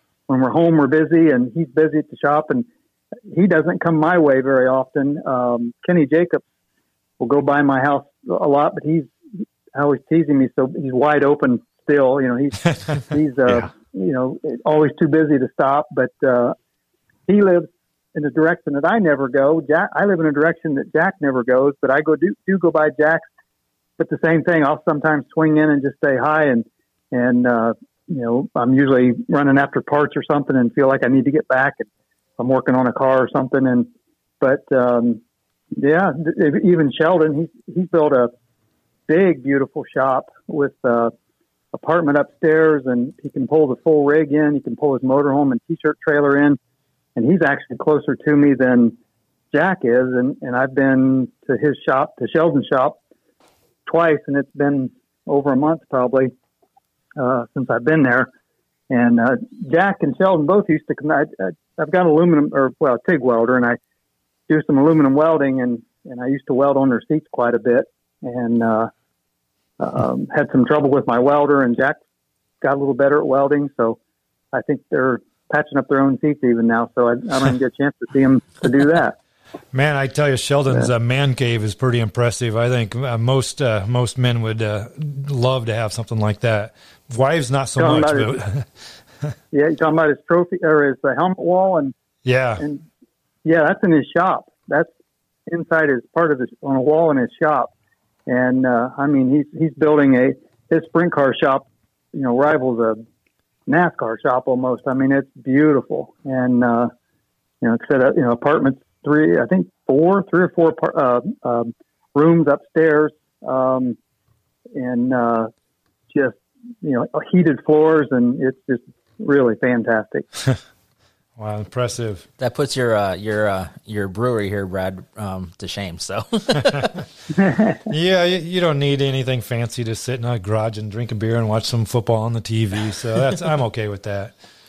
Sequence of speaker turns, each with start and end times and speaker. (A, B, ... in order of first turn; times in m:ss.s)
0:00.3-0:02.7 A
0:03.3-0:06.4 A
0:07.2-0:09.1 A
0:09.8-0:16.6 A
0:17.3-0:23.3 A
0:24.0-0:33.9 A
0:34.4-0:35.2 A
0:35.8-0:38.3 A
0:39.1-0:41.1 A
0:41.7-0:46.6 A
0:47.2-0:49.0 A
0:49.5-0:53.0 A
0:53.9-0:56.3 A
0:57.2-0:58.3 A
0:58.9-1:03.8 A
1:04.5-1:08.9 A
1:09.8-1:12.0 A
1:12.6-1:14.0 A
1:14.5-1:19.2 A
1:19.7-1:28.7 B
1:27.8-1:28.4 A
1:29.5-1:31.9 A
1:32.2-1:32.6 B
1:33.4-1:34.9 A
1:35.5-1:37.7 A
1:38.3-1:43.0 A
1:43.7-1:46.9 A
1:47.6-1:54.0 A
1:54.8-1:55.5 A
1:56.1-2:00.3 A
2:01.4-2:02.3 B
2:02.4-2:07.0 C
2:07.4-2:07.8 A
2:07.9-2:14.3 B